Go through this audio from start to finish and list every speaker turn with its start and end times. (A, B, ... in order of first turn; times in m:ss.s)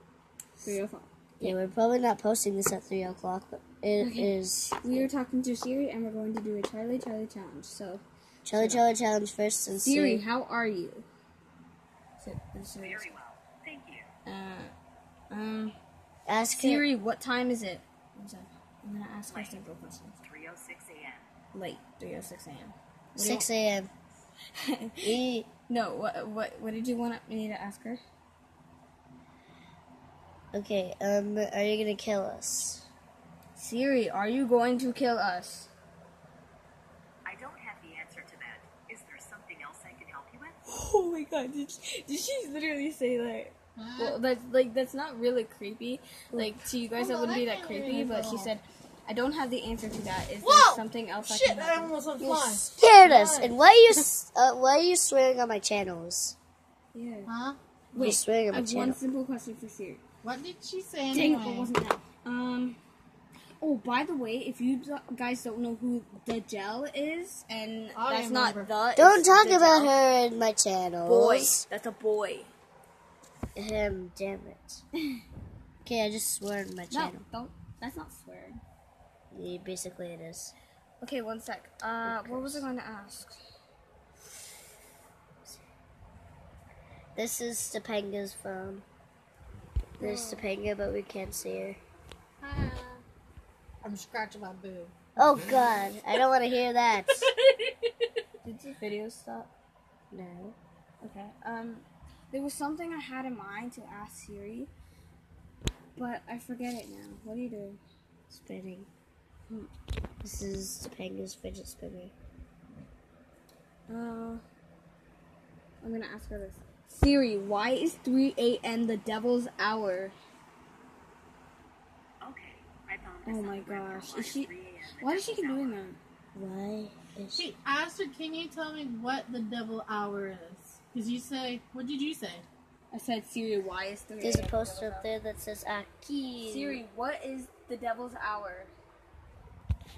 0:00.6-0:01.6 A
0:01.4-0:05.1 B
0:04.0-0:08.0 A
0:08.4-0:10.2 B
0:08.5-0:08.9 A
0:09.8-0:11.1 A
0:12.2-0:13.1 A
0:12.8-0:14.1 C
0:14.3-0:14.7 A
0:15.3-0:15.8 A
0:16.3-0:16.9 B
0:16.5-0:20.2 A
0:19.3-0:19.6 C
0:20.2-0:21.3 C
0:21.5-0:23.5 A
0:23.2-0:23.9 B
0:24.5-0:25.0 A
0:25.0-0:25.5 B
0:25.7-0:28.0 A
0:30.5-0:32.9 B
0:33.6-0:35.7 A
0:37.2-0:40.6 C
0:40.7-0:52.8 A
0:43.8-0:44.2 D
0:46.3-0:48.5 D
0:50.4-0:53.6 D
0:52.8-0:56.4 B
0:56.9-0:57.3 A
0:57.3-0:57.6 D
0:57.9-1:00.0 A
0:58.0-0:59.0 B
1:00.2-1:01.7 D
1:01.1-1:02.8 A
1:03.6-1:10.0 A
1:07.9-1:08.7 D
1:09.0-1:11.7 B
1:11.0-1:12.5 A
1:13.6-1:14.8 B
1:15.8-1:17.2 B
1:16.9-1:18.6 A
1:19.3-1:20.5 B
1:21.0-1:23.4 A
1:22.0-1:22.7 B
1:27.2-1:28.8 B
1:30.0-1:30.5 A
1:30.0-1:31.8 B
1:32.4-1:33.0 D
1:33.8-1:35.6 D
1:35.2-1:37.3 B
1:38.4-1:39.5 A
1:40.1-1:40.6 B
1:41.0-1:44.7 A
1:46.0-1:47.8 A
1:48.3-1:48.9 B
1:50.2-1:52.1 B
1:53.9-1:54.4 A
1:55.8-2:00.2 A
2:02.2-2:05.8 C
2:03.3-2:06.0 A
2:06.4-2:07.5 B
2:07.4-2:12.4 D
2:12.9-2:15.1 A
2:14.2-2:16.8 B
2:16.4-2:18.7 A